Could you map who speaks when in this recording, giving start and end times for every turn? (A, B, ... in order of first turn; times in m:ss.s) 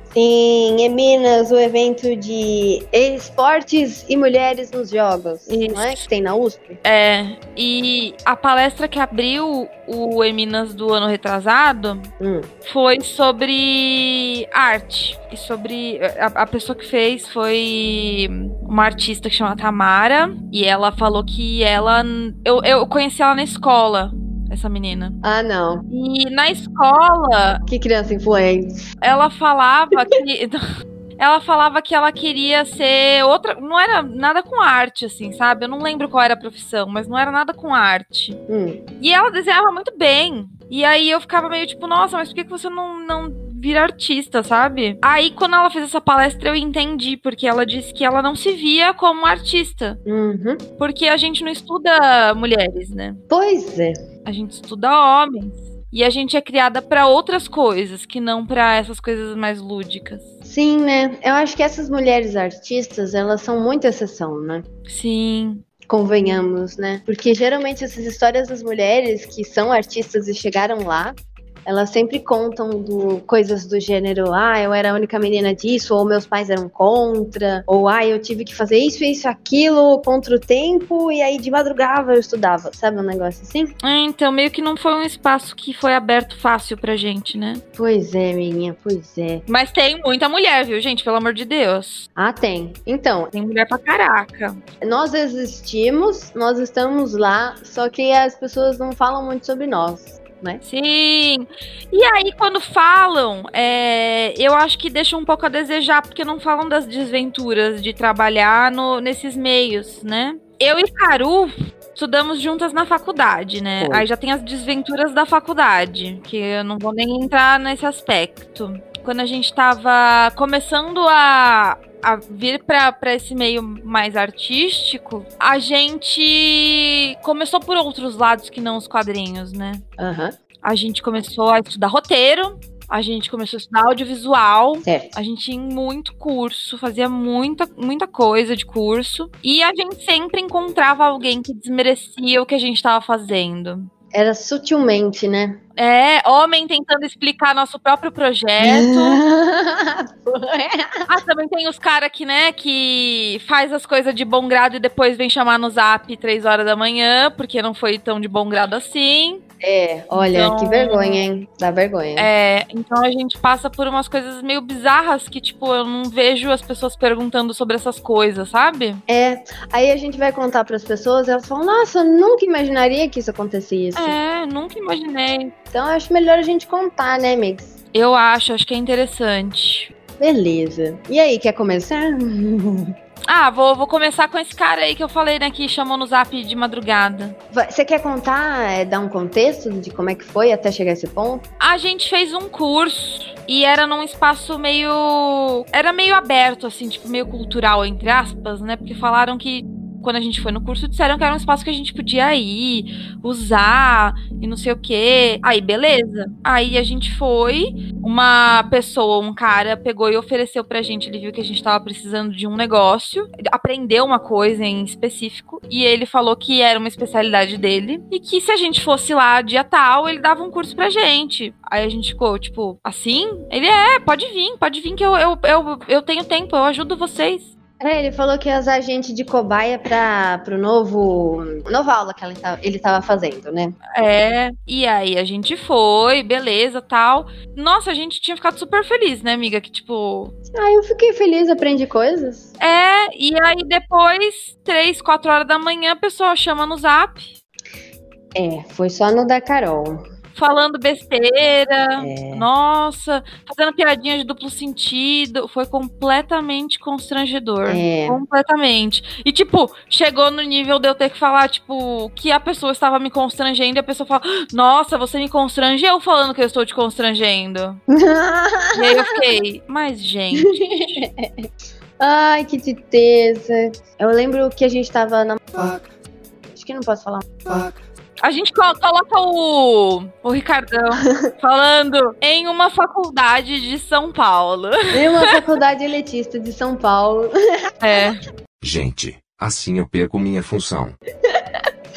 0:00.1-0:06.8 A
0:05.5-0:06.1 B
0:06.8-0:12.1 B
0:12.2-0:12.5 A
0:12.7-0:25.2 B
0:25.2-0:25.8 A
0:25.9-0:27.6 B
0:27.7-0:28.9 A
0:29.0-0:30.6 B
0:31.2-0:38.4 B
0:38.5-0:38.8 A
0:39.0-0:50.0 B
0:50.1-0:50.6 A
0:50.8-0:53.2 B
0:53.3-0:54.0 A
0:54.2-1:00.3 B
1:00.4-1:04.7 A
1:04.9-1:05.6 B
1:05.8-1:23.7 A
1:23.8-1:27.6 B
1:27.8-1:29.4 A
1:29.5-1:32.1 B
1:32.2-1:33.3 A
1:33.3-1:34.6 B
1:34.8-1:40.6 A
1:40.6-2:09.8 B
1:53.8-1:54.1 A
2:10.0-2:10.4 A
2:10.6-2:23.9 B
2:14.8-2:15.2 A
2:24.1-2:25.6 A
2:25.8-2:29.2 B
2:28.6-2:31.1 A
2:31.1-2:39.4 B
2:39.6-2:42.3 A
2:40.1-2:41.2 B
2:42.2-2:49.0 B
2:49.1-2:54.2 A
2:54.0-2:55.5 B
2:55.7-2:57.8 A
2:57.9-2:59.9 B
3:00.2-3:02.9 A
3:03.3-3:07.4 B
3:07.5-3:11.4 A
3:11.6-3:47.5 B
3:47.8-3:53.8 A
3:54.0-4:00.3 B
4:00.5-4:02.5 A
4:02.6-4:07.3 B
4:08.4-4:10.0 A
4:10.4-4:27.8 B
4:12.0-4:12.5 A
4:17.7-4:18.2 A
4:27.9-4:29.2 A
4:28.7-4:31.0 B
4:30.6-4:31.5 A
4:32.0-4:35.8 A
4:36.5-4:37.7 A
4:38.2-4:45.3 B
4:44.9-4:48.0 A
4:47.8-4:48.2 B
4:48.6-4:51.0 C